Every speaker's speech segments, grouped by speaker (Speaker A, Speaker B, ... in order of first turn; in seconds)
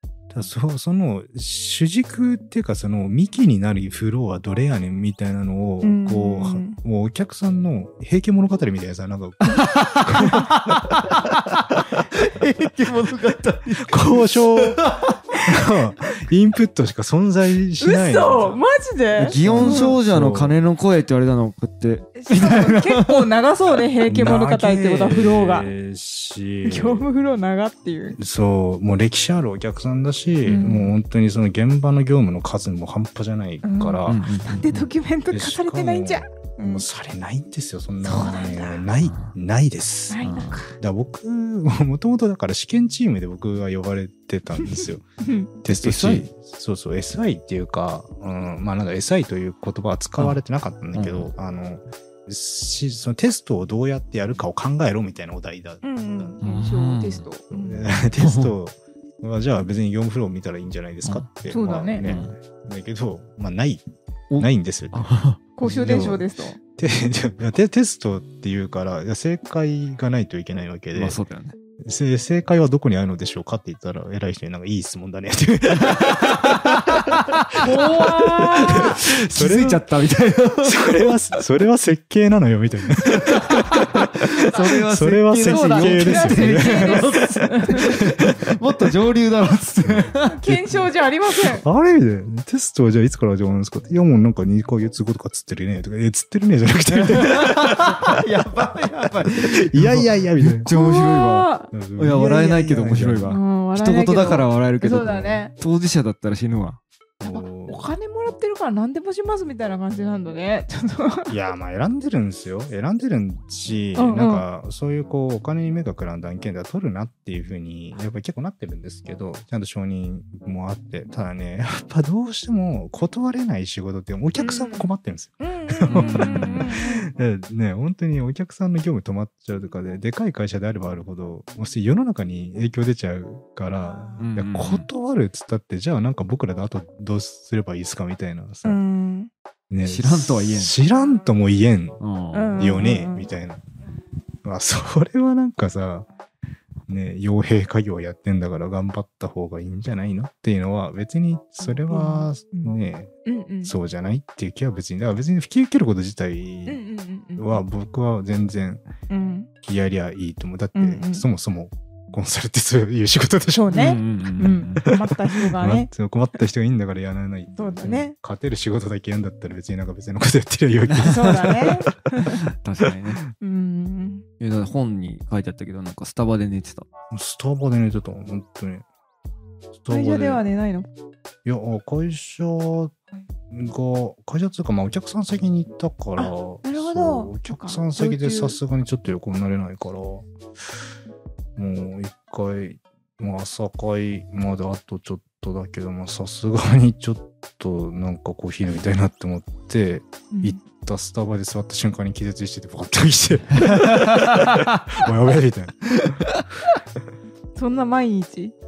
Speaker A: 0.3-10.7, 13.8-14.9, 15.4-18.6, 19.2-20.6, 24.1-27.1, 28.2-34.2, 35.3-45.0, 45.6-56.4, 57.5-63.9, 64.4-66.3, 66.8-71.2, 71.8-79.9, 80.6-87.2, 87.8-88.5, 89.8-98.2, 99.3-100.7, 101.7-103.4, 107.2-107.9, 111.3-138.8, 139.7-142.0, 142.6-143.6, 144.4-146.1, 146.9-153.1, 153.6-156.8, 157.4-158.8, 159.6-172.3, 177.1-178.8, 179.8-180.4, 181.4-182.9, 183.5-190.3, 191.6-206.3
Speaker B: 5.8-6.8, 17.8-20.0, 22.2-25.7, 26.6-28.2, 30.5-30.9, 33.6-36.9, 38.1-38.8, 40.1-40.8, 44.7-45.5, 55.8-57.9, 61.5-62.2, 65.6-66.6, 77.6-79.0, 85.4-88.0, 90.3-91.7, 100.7-101.7, 103.3-105.5, 107.2-111.3, 114.0-114.5, 124.4-124.9, 125.4-127.1, 138.6-139.3, 142.3-143.3, 151.7-152.7, 153.3-153.7, 156.7-157.6, 159.1-159.5, 160.8-161.2, 163.6-165.9, 167.6-168.1, 171.0-172.4, 173.4-174.2, 179.9-180.9, 186.2-188.6, 200.3-200.6, 207.6-208.5
Speaker C: 9.5-15.2, 19.2-23.3, 34.1-34.9, 38.0-38.4, 39.0-39.4, 40.2-40.7, 45.7-46.3, 51.0-51.3, 56.4-57.3, 58.2-58.5, 62.0-62.3, 64.3-65.4, 70.9-71.5, 75.8-81.4, 82.9-90.4, 97.1-106.8, 125.9-126.7, 134.2-134.9, 139.8-140.8, 142.0-142.8, 163.7-164.9, 170.9-171.3, 172.3-173.2, 174.4-176.9, 203.8-204.8, 206.0-206.4